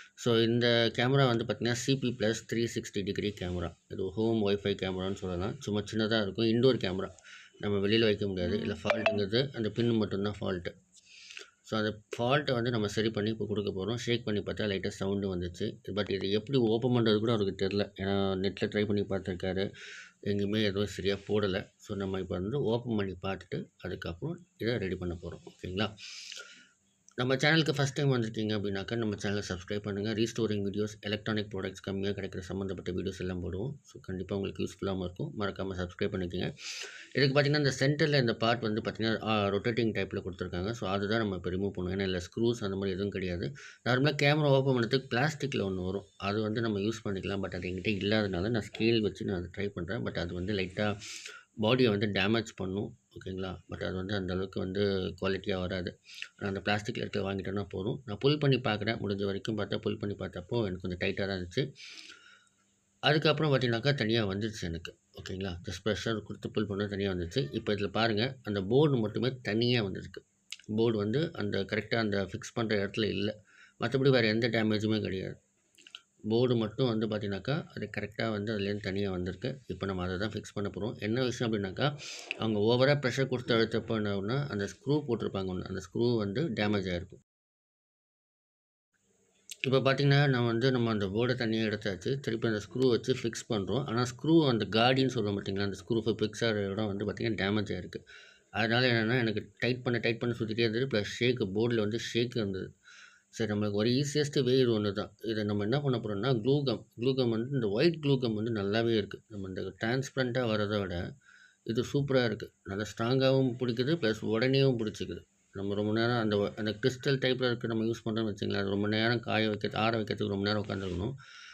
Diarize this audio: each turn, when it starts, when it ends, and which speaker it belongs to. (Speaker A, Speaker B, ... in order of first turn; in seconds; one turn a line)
Speaker A: 0.2-7.1
Speaker A: 7.6-10.7
Speaker A: 11.6-19.6
Speaker A: 20.3-25.9
Speaker A: 27.2-36.5
Speaker A: 37.1-50.9
Speaker A: 51.6-61.6
Speaker A: 63.1-70.2
Speaker A: 70.7-75.3
Speaker A: 76.3-87.2
Speaker A: 89.7-98.0
Speaker A: 98.6-102.7
Speaker A: 103.3-111.0
Speaker A: 111.7-121.1